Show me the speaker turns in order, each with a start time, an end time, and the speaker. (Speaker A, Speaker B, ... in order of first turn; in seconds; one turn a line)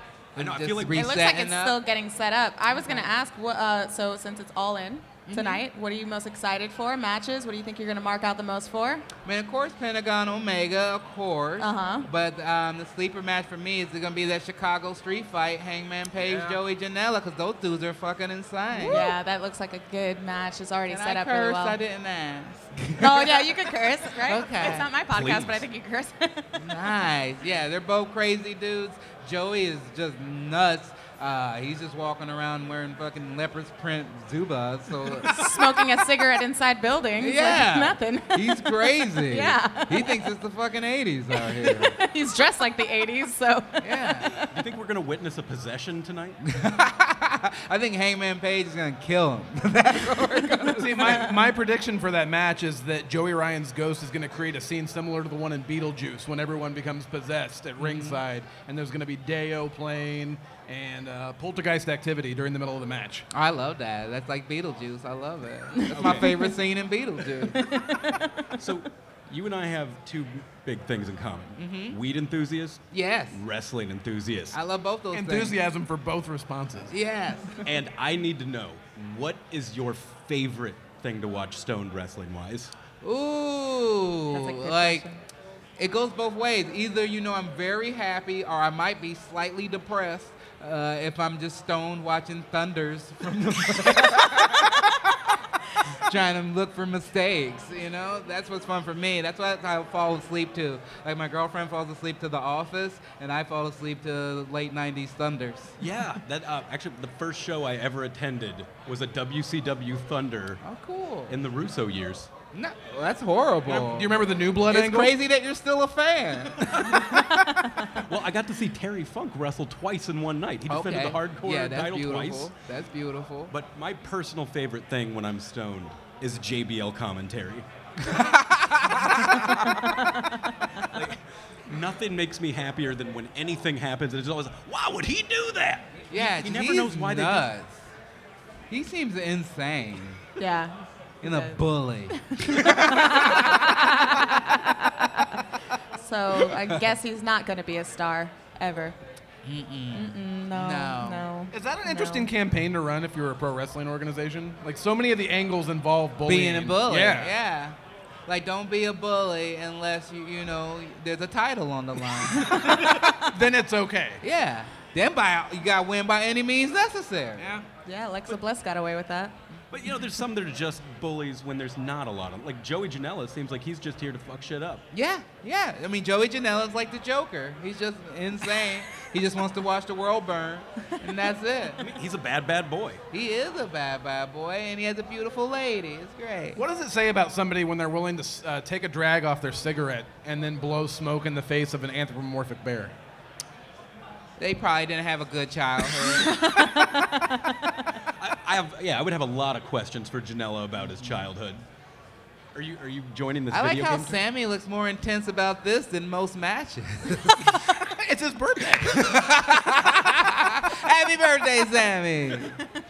Speaker A: 0.4-1.2
Speaker B: 0.4-1.8
Speaker C: 0.9-9.1
Speaker B: 2.8-3.1
Speaker B: 5.3-5.6
Speaker B: 9.2-19.1
Speaker C: 11.6-12.1
Speaker D: 16.2-16.6
Speaker C: 18.9-21.8
Speaker B: 20.9-23.5
Speaker C: 23.0-26.6
Speaker B: 24.2-24.9
Speaker A: 25.1-25.6
Speaker B: 26.6-35.5
Speaker C: 35.2-40.3
Speaker B: 37.2-42.0
Speaker C: 41.3-44.5
Speaker B: 43.8-44.3
Speaker A: 44.4-46.4
Speaker B: 46.5-51.2
Speaker D: 50.8-63.3
Speaker C: 51.0-51.3
Speaker B: 57.8-58.2
Speaker B: 63.3-67.7
Speaker A: 65.9-66.4
Speaker C: 67.5-68.4
Speaker A: 68.6-74.6
Speaker B: 71.6-72.0
Speaker B: 72.9-73.4
Speaker B: 74.5-75.6
Speaker D: 75.1-77.0
Speaker B: 76.9-77.6
Speaker A: 77.6-82.7
Speaker B: 83.0-85.1
Speaker C: 84.3-85.2
Speaker B: 85.8-94.9
Speaker B: 95.9-105.8
Speaker A: 105.8-110.6
Speaker B: 110.6-111.3
Speaker A: 111.3-112.3
Speaker B: 112.5-114.1
Speaker D: 113.7-115.1
Speaker B: 114.7-116.7
Speaker A: 116.6-117.1
Speaker C: 117.1-117.9
Speaker A: 118.0-122.5
Speaker B: 120.7-123.5
Speaker A: 123.5-127.7
Speaker B: 128.0-129.7
Speaker A: 130.8-137.5
Speaker B: 136.1-137.8
Speaker B: 138.7-140.2
Speaker C: 140.4-141.6
Speaker B: 141.2-143.9
Speaker C: 142.1-145.4
Speaker C: 146.0-149.0
Speaker B: 149.4-151.3
Speaker C: 149.9-152.3
Speaker D: 151.5-157.3
Speaker B: 156.3-157.8
Speaker B: 158.3-162.9
Speaker C: 162.4-163.2
Speaker D: 163.2-164.2
Speaker B: 164.2-167.6
Speaker D: 167.4-167.6
Speaker C: 167.8-169.3
Speaker A: 169.7-174.8
Speaker B: 174.9-181.9
Speaker A: 181.8-183.0
Speaker B: 183.1-186.6
Speaker D: 186.6-192.9
Speaker B: 194.4-196.5
Speaker C: 196.2-197.8
Speaker A: 198.2-201.6
Speaker B: 200.9-201.2
Speaker A: 202.5-204.2
Speaker B: 203.5-207.6
Speaker D: 207.8-209.2
Speaker B: 208.8-212.6